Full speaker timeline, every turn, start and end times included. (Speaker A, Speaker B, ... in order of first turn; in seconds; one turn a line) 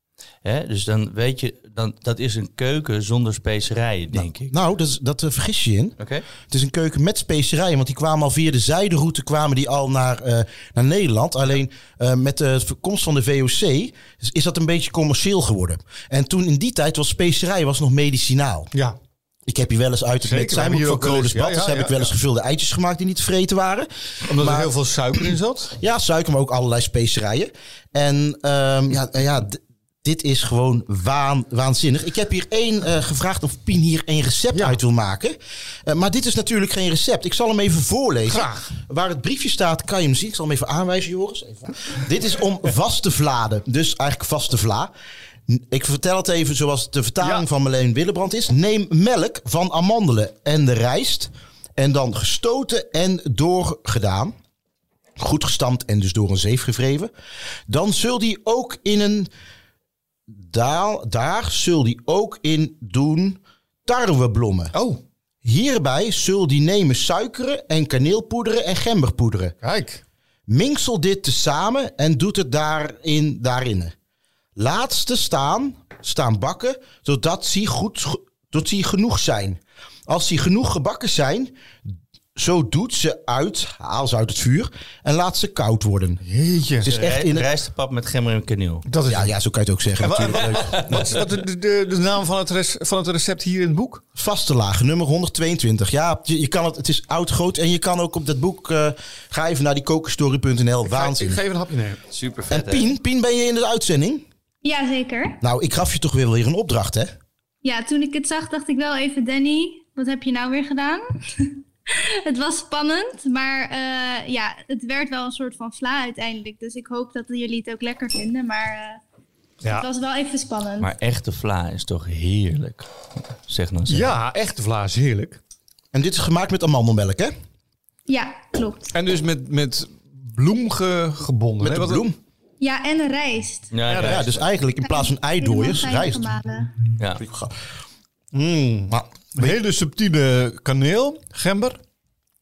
Speaker A: 0.4-4.5
Speaker B: 4.1-6.0
Speaker A: 6.0-6.2
Speaker B: 6.5-18.7
Speaker B: 19.4-25.2
Speaker C: 20.2-22.1
Speaker C: 24.2-25.7
Speaker B: 25.8-44.9
Speaker C: 34.5-34.8
Speaker C: 38.3-38.7
Speaker B: 45.5-54.3
Speaker B: 55.2-57.1
Speaker B: 57.7-59.3
Speaker B: 60.3-64.7
Speaker C: 64.7-65.0
Speaker B: 65.4-69.5
Speaker C: 69.6-70.0
Speaker B: 70.5-73.9
Speaker B: 74.5-86.2
Speaker C: 86.2-86.9
Speaker B: 86.8-87.5
Speaker A: 86.8-88.8
Speaker C: 88.9-89.3
Speaker B: 89.1-91.2
Speaker C: 90.0-94.0
Speaker A: 90.6-91.2
Speaker B: 94.2-101.4
Speaker C: 100.9-102.0
Speaker A: 102.1-102.9
Speaker B: 102.5-104.2
Speaker D: 104.6-105.4
Speaker B: 105.4-107.1
Speaker D: 107.6-119.0
Speaker D: 119.6-120.9
Speaker A: 120.8-124.1
Speaker C: 123.9-125.4
Speaker B: 125.9-127.3
Speaker D: 128.1-128.9
Speaker C: 128.9-132.1
Speaker B: 131.6-132.2
Speaker D: 132.6-133.7
Speaker A: 133.7-134.4
Speaker C: 133.9-134.4
Speaker B: 134.0-136.3
Speaker D: 134.8-136.9
Speaker A: 137.0-137.2
Speaker B: 137.2-137.6
Speaker C: 138.3-141.8
Speaker B: 138.9-139.6